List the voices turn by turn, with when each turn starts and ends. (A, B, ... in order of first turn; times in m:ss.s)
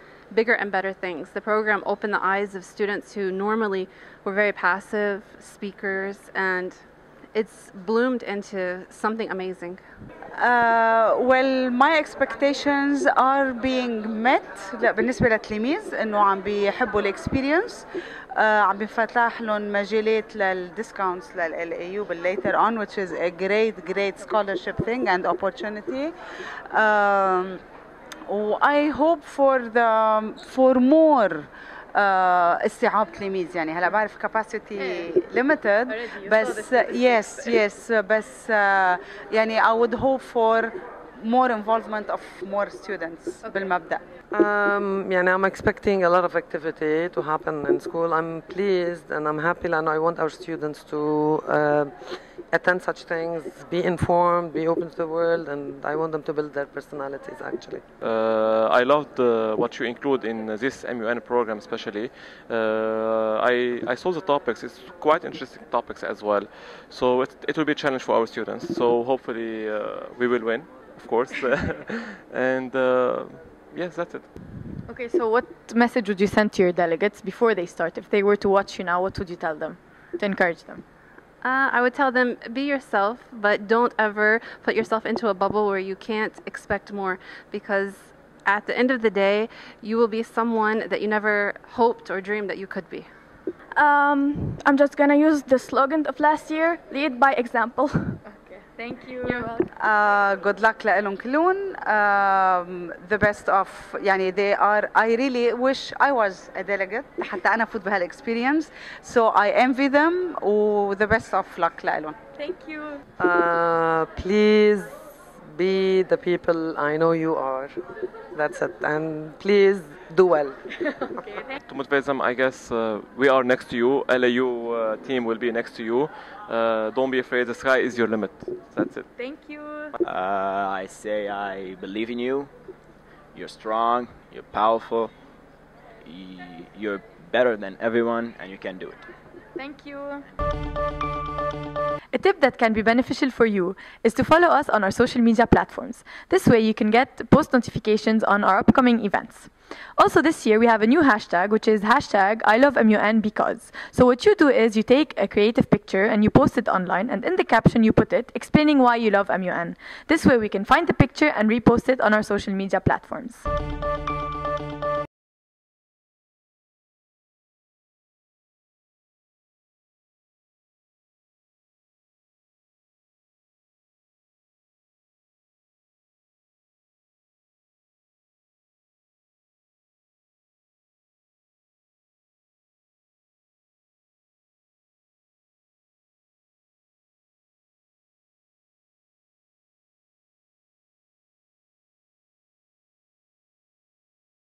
0:00.3-0:09.8 A
0:10.4-0:26.1 B
0:26.7-0:27.6 B
0:28.3-0:44.0 B
0:44.3-0:57.8 C
0:58.0-1:14.3 D
1:14.9-1:20.8 E
1:21.4-1:33.1 A
1:33.8-1:38.2 F
1:38.8-1:39.6 E
1:39.2-1:39.6 F
1:39.7-1:52.2 B
1:52.4-1:53.0 E
1:53.2-1:54.9 C
1:55.4-1:57.8 C
1:58.3-2:00.9 C
2:01.2-2:01.5 E
2:01.7-2:09.1 D
2:09.2-2:10.0 E
2:10.0-2:12.5 G
2:13.3-2:15.1 G
2:16.0-2:19.1 G
2:19.6-2:20.3 E
2:22.1-2:43.4 E